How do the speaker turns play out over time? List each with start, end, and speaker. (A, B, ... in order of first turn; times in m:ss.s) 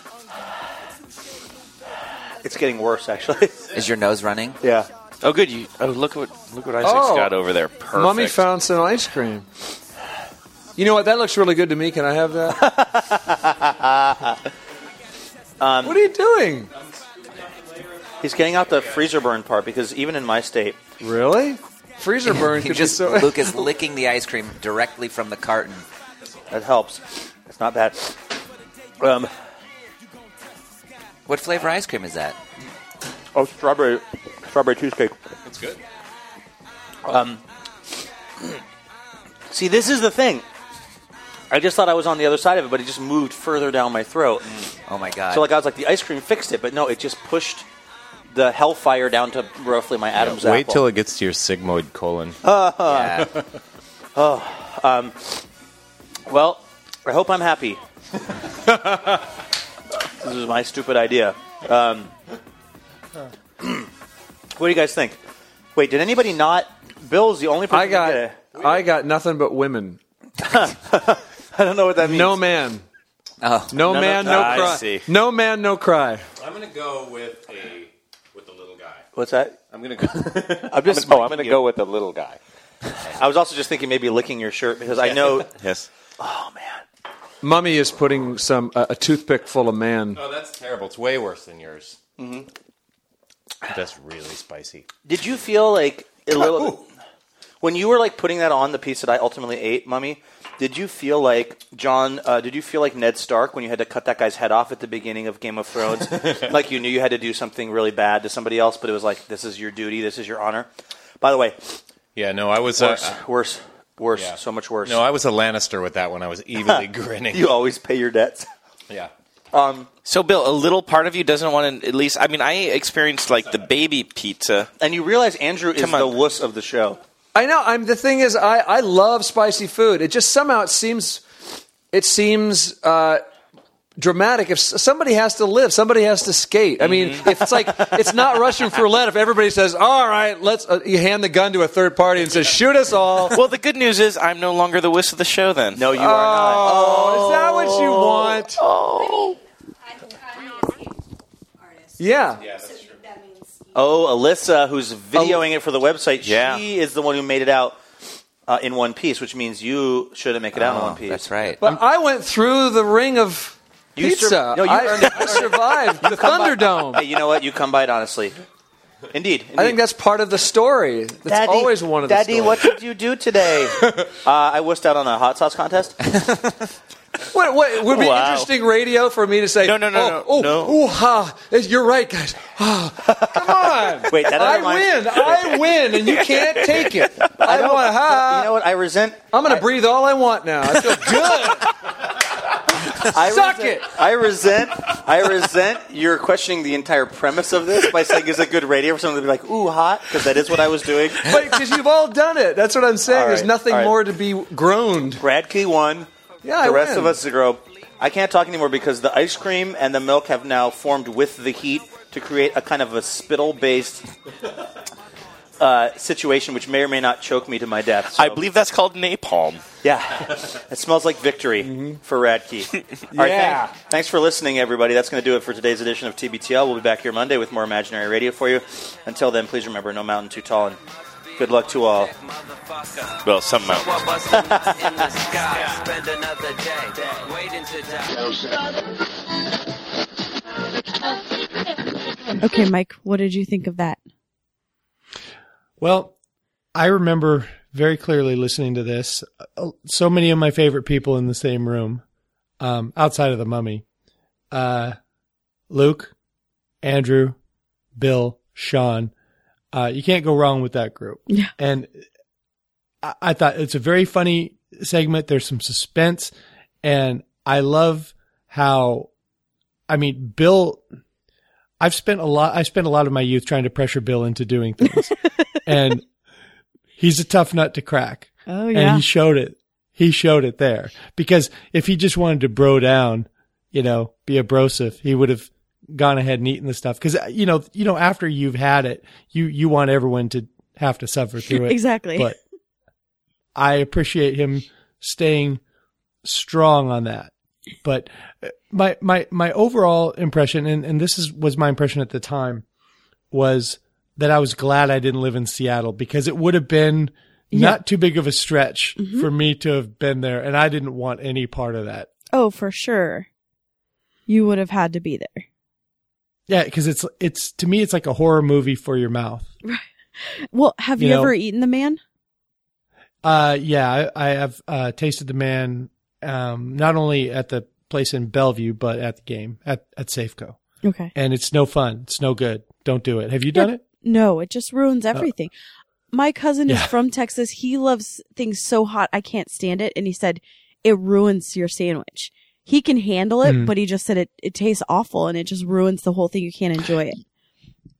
0:02.4-0:03.5 A
0:03.7-0:04.6 B
0:04.6-0:04.9 A
0:05.2-0:08.4 C
0:06.8-0:07.3 D
0:07.9-0:09.4 D
0:10.8-0:12.6 D
0:12.5-0:14.4 A
0:15.6-0:16.0 A
0:15.8-0:16.7 D
0:16.7-0:19.1 E
0:18.2-0:20.8 A
0:21.0-0:23.7 D
0:22.2-0:25.8 B
0:26.2-0:26.6 E
0:26.5-0:28.1 A
0:29.0-0:29.3 A
0:31.3-0:32.4 B
0:33.3-0:35.2 A
0:35.4-0:35.8 E
0:37.0-0:37.4 A
0:39.5-0:40.4 A
0:41.5-0:44.5 A
0:44.9-0:45.5 B
0:45.3-0:47.6 A
0:48.3-0:50.8 A
0:50.1-0:52.4 E
0:52.4-0:53.2 A
0:52.8-0:53.3 B
0:54.2-0:55.4 A
0:56.3-0:57.8 A
1:00.2-1:02.1 A
1:03.6-1:03.9 A
1:04.6-1:05.2 A
1:05.8-1:08.4 A
1:07.7-1:10.0 D
1:08.4-1:08.9 E
1:10.4-1:12.4 A
1:12.0-1:12.8 D
1:13.4-1:13.8 B
1:13.7-1:16.2 D
1:13.8-1:15.0 A
1:14.2-1:15.0 C
1:16.4-1:19.0 E
1:19.1-1:19.6 A
1:19.7-1:22.4 E
1:20.7-1:21.7 A
1:21.0-1:21.6 C
1:23.2-1:25.5 A
1:25.4-1:25.9 C
1:26.2-1:26.8 A
1:27.4-1:30.2 D
1:30.1-1:32.0 E
1:32.2-1:32.5 A
1:33.7-1:34.9 E
1:35.0-1:36.8 A
1:36.4-1:36.8 E
1:37.6-1:50.7 A
1:46.0-1:46.5 E
1:51.2-1:51.8 A
1:52.1-1:53.2 E
1:52.8-1:55.0 A
1:54.1-1:57.5 E
1:56.6-1:58.5 A
1:59.5-1:59.9 A
2:00.0-2:04.7 C
2:04.8-2:07.0 A
2:05.8-2:06.2 C
2:07.3-2:11.2 D
2:11.9-2:13.2 D
2:14.0-2:23.4 D
2:16.8-2:17.2 C
2:23.3-2:25.9 C
2:25.7-2:29.4 A
2:25.9-2:28.6 D
2:32.0-2:32.4 D
2:32.4-2:33.0 E
2:33.7-2:37.8 A
2:35.1-2:35.4 D
2:36.2-2:36.6 C
2:38.5-2:41.7 A
2:40.5-2:41.6 B
2:41.6-2:47.0 D
2:44.0-2:48.3 A
2:49.1-2:49.8 A
2:49.6-2:52.7 D
2:51.2-2:56.0 A
2:57.3-3:08.5 D
2:57.9-2:58.5 A
2:59.6-3:00.8 C
3:03.1-3:03.5 A
3:04.0-3:05.6 A
3:07.4-3:09.6 A
3:09.3-3:11.7 D
3:13.0-3:21.4 A
3:13.2-3:13.9 D
3:21.2-3:25.2 D
3:23.1-3:23.9 A
3:25.2-3:34.1 A
3:26.4-3:27.2 D
3:35.6-3:38.4 A
3:38.1-3:39.6 C
3:39.8-3:50.8 A
3:41.6-3:42.0 D
3:43.1-3:43.7 D
3:51.4-3:52.1 A
3:53.2-3:54.1 C
3:54.3-3:55.2 A
4:02.4-4:04.0 F
4:05.8-4:06.1 G
4:06.7-4:12.0 G
4:12.6-4:13.8 G
4:14.5-4:15.0 G
4:15.7-4:16.1 G
4:16.8-4:17.4 G
4:18.0-4:19.1 G
4:19.7-4:22.0 G
4:23.0-4:26.3 G
4:26.8-4:29.1 G
4:29.9-4:30.8 G
4:31.8-4:36.0 G
4:37.0-4:52.4 G
4:38.5-4:39.0 F
4:51.5-4:52.3 F
4:53.5-4:55.6 G
4:56.2-4:57.3 G
4:57.8-5:02.6 G
5:03.3-5:12.1 G
5:07.5-5:07.8 F
5:09.0-5:09.3 F
5:12.3-5:13.3 F
5:14.3-5:15.4 F
5:16.5-5:19.5 G
5:19.6-5:22.0 F
5:21.0-5:21.3 G
5:23.2-5:30.6 G
5:30.8-5:31.1 F
5:31.1-5:33.8 G
5:33.5-5:35.5 F
5:36.1-5:47.2 F
5:36.7-5:36.9 G
5:43.4-5:43.7 G